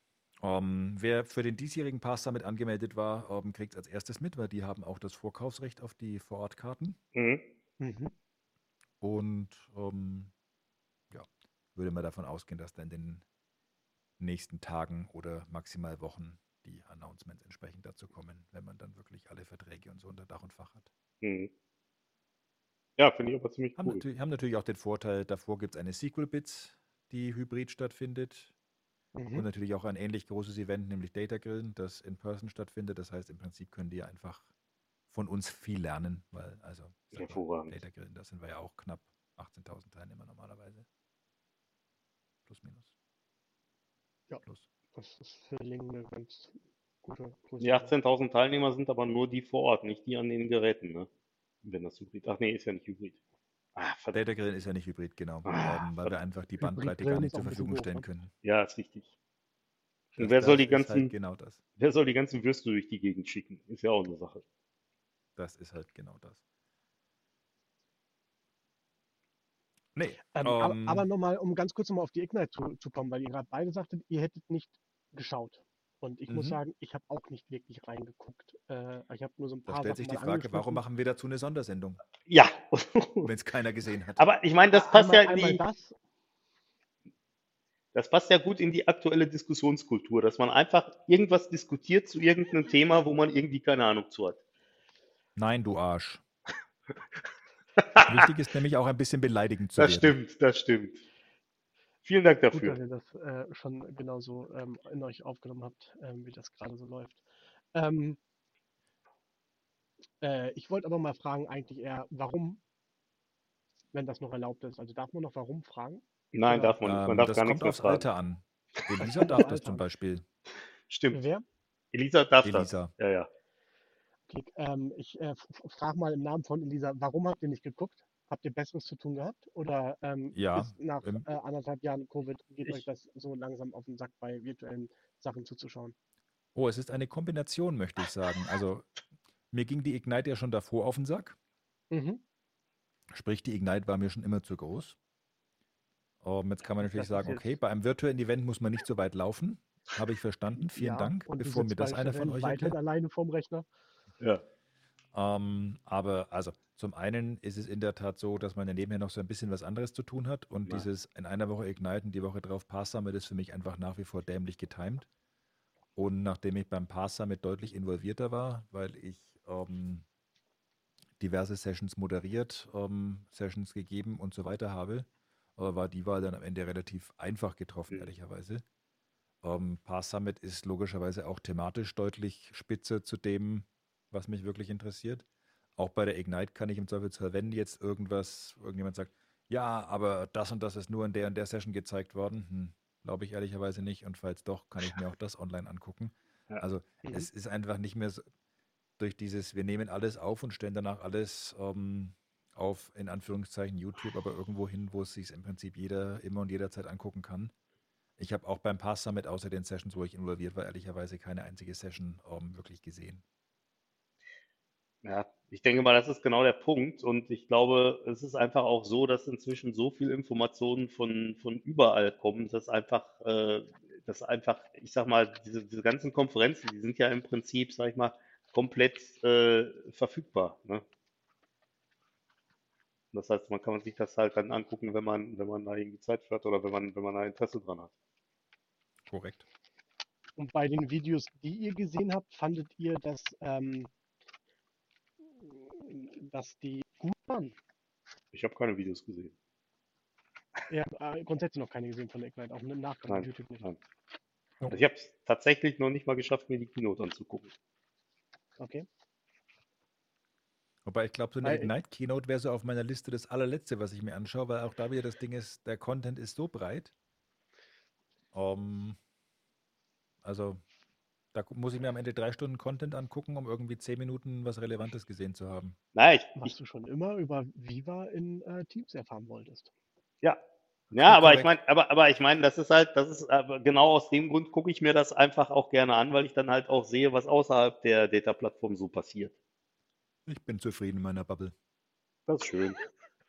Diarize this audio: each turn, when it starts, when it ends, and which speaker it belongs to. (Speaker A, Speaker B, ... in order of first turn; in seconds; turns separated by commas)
Speaker A: 0.4-7.0, Speaker B: 7.1-7.4, Speaker C: 7.8-8.1, Speaker A: 9.0-10.3, Speaker A: 11.1-13.2, Speaker A: 14.2-20.9, Speaker B: 21.2-21.5, Speaker B: 23.0-24.0, Speaker A: 23.8-28.5, Speaker C: 29.1-29.4, Speaker A: 29.3-34.5, Speaker A: 35.1-40.9, Speaker B: 37.1-37.8, Speaker A: 42.5-42.9, Speaker C: 44.9-47.9, Speaker B: 47.6-51.1, Speaker B: 51.6-53.2, Speaker B: 53.8-54.2, Speaker A: 54.1-58.3, Speaker B: 55.5-56.1, Speaker C: 56.6-58.1, Speaker B: 58.4-59.1, Speaker A: 60.1-61.6, Speaker B: 60.2-61.1, Speaker B: 61.8-64.4, Speaker A: 65.4-66.4, Speaker A: 69.9-71.1, Speaker C: 70.3-80.8, Speaker A: 76.3-76.6, Speaker A: 79.7-82.0, Speaker B: 82.3-83.3, Speaker A: 83.2-84.2, Speaker B: 84.2-85.6, Speaker C: 84.7-86.0, Speaker B: 87.9-94.4, Speaker A: 95.4-96.2, Speaker B: 97.8-98.3, Speaker A: 98.1-100.2, Speaker B: 99.8-101.0, Speaker B: 102.0-102.8, Speaker C: 102.5-107.2, Speaker C: 107.7-108.2, Speaker C: 110.2-112.6, Speaker C: 113.9-116.8, Speaker B: 116.3-118.1, Speaker A: 116.8-120.2, Speaker C: 119.0-119.8, Speaker B: 120.9-121.2, Speaker C: 121.1-121.4, Speaker B: 121.9-123.3, Speaker A: 122.4-122.9, Speaker C: 124.3-135.9, Speaker A: 130.3-131.3, Speaker A: 136.5-138.9, Speaker A: 139.5-141.4, Speaker C: 141.9-142.2, Speaker A: 143.1-144.9, Speaker A: 146.2-152.7, Speaker C: 146.8-147.5, Speaker C: 150.6-153.7, Speaker A: 155.1-165.1, Speaker A: 165.9-170.0, Speaker A: 171.2-178.6, Speaker A: 179.4-185.2, Speaker A: 185.8-198.2, Speaker A: 199.0-207.5, Speaker A: 208.2-213.2, Speaker B: 215.0-230.8, Speaker B: 233.1-237.9, Speaker A: 239.1-239.4, Speaker C: 240.4-243.9, Speaker C: 245.4-247.6, Speaker B: 248.3-249.3, Speaker C: 250.7-253.7, Speaker B: 253.1-253.8, Speaker B: 254.7-257.5, Speaker C: 258.6-258.9, Speaker A: 260.9-266.9, Speaker C: 261.4-261.7, Speaker A: 268.3-269.0, Speaker A: 270.2-270.6, Speaker A: 271.3-275.8, Speaker B: 275.9-276.5, Speaker C: 276.4-279.7, Speaker B: 280.9-289.3, Speaker A: 280.9-281.5, Speaker A: 290.3-291.5, Speaker B: 292.3-292.8